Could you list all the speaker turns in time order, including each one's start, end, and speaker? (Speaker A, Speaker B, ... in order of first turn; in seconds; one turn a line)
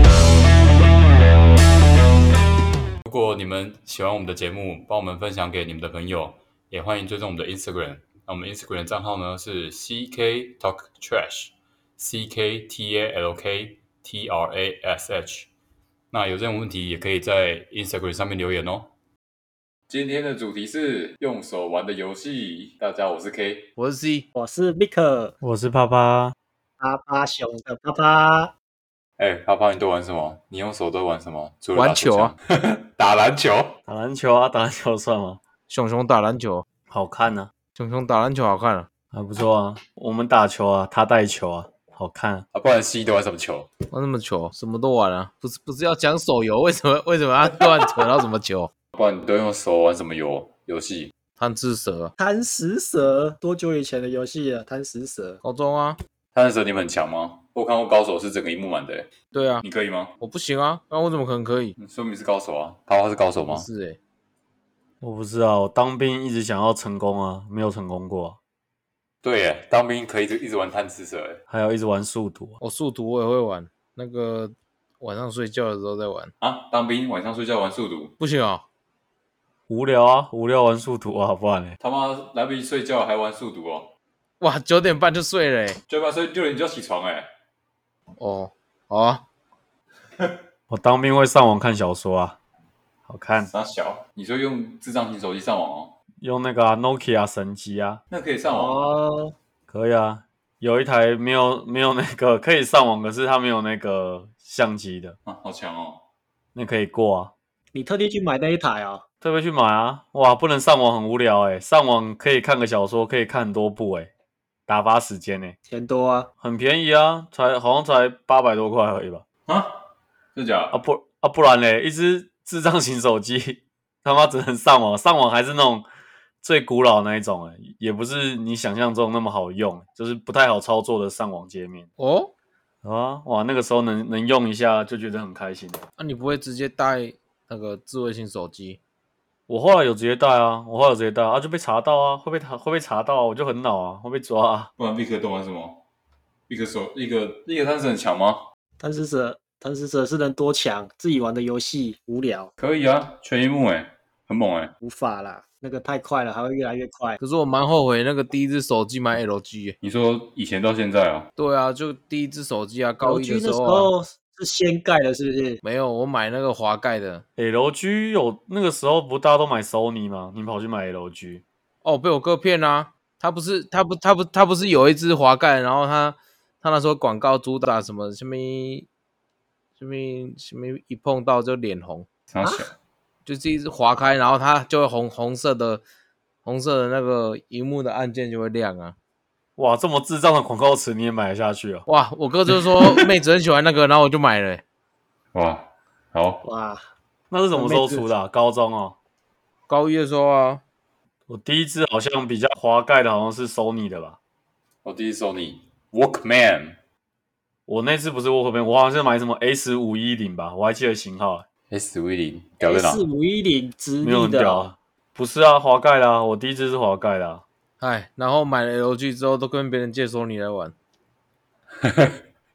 Speaker A: 3.0-15.5
Speaker A: 16.1-18.9
Speaker A: 19.9-23.7
Speaker B: 23.8-24.2
Speaker C: 24.3-25.4
Speaker D: 25.4-26.3
Speaker C: 26.8-28.5
Speaker A: 29.2-33.8
Speaker B: 31.7-32.3
Speaker D: 33.9-35.4
Speaker B: 35.7-36.6
Speaker D: 36.9-37.5
Speaker B: 37.8-38.9
Speaker D: 39.1-42.4
Speaker A: 42.5-43.7
Speaker B: 43.9-48.7
Speaker A: 48.9-51.1
Speaker B: 51.4-52.1
Speaker C: 52.2-55.4
Speaker B: 55.4-56.0
Speaker A: 56.3-60.1
Speaker B: 59.3-59.6
Speaker B: 60.2-61.7
Speaker A: 61.8-63.6
Speaker B: 63.4-64.0
Speaker D: 65.0-68.4
Speaker A: 69.2-71.4
Speaker D: 71.5-72.6
Speaker B: 72.6-76.3
Speaker A: 76.4-78.1
Speaker B: 78.2-78.6
Speaker D: 79.7-81.7
Speaker A: 81.8-83.9
Speaker B: 84.4-85.8
Speaker A: 85.9-87.3
Speaker B: 88.2-89.2
Speaker D: 90.7-92.4
Speaker D: 93.1-93.5
Speaker A: 93.5-95.9
Speaker D: 96.2-98.0
Speaker A: 98.1-98.8
Speaker C: 98.5-99.3
Speaker D: 99.7-105.2
Speaker A: 105.2-106.0
Speaker D: 106.5-107.3
Speaker C: 107.7-109.0
Speaker D: 109.2-114.1
Speaker D: 114.7-115.5
Speaker C: 115.7-116.3
Speaker D: 116.4-119.2
Speaker A: 119.5-119.8
Speaker A: 120.3-120.8
Speaker D: 120.7-125.8
Speaker D: 126.4-131.9
Speaker B: 132.0-132.3
Speaker D: 132.8-135.8
Speaker B: 136.0-138.8
Speaker D: 139.5-144.7
Speaker A: 144.8-145.8
Speaker A: 146.5-148.4
Speaker C: 148.8-152.5
Speaker A: 152.6-154.7
Speaker C: 154.8-157.2
Speaker B: 157.2-159.8
Speaker A: 159.8-161.3
Speaker B: 161.3-163.9
Speaker C: 163.0-165.6
Speaker B: 165.6-167.2
Speaker D: 167.4-171.4
Speaker B: 171.8-178.9
Speaker B: 179.8-182.1
Speaker A: 182.3-182.7
Speaker B: 183.2-185.8
Speaker B: 186.4-188.9
Speaker D: 189.6-191.8
Speaker B: 191.9-194.6
Speaker A: 195.3-196.4
Speaker C: 196.4-196.9
Speaker D: 197.3-198.9
Speaker C: 197.5-198.1
Speaker B: 199.7-200.6
Speaker D: 201.3-204.2
Speaker A: 204.8-206.8
Speaker D: 207.7-211.4
Speaker A: 211.7-213.0
Speaker C: 212.7-214.7
Speaker D: 214.0-217.4
Speaker B: 217.8-220.7
Speaker A: 221.8-222.2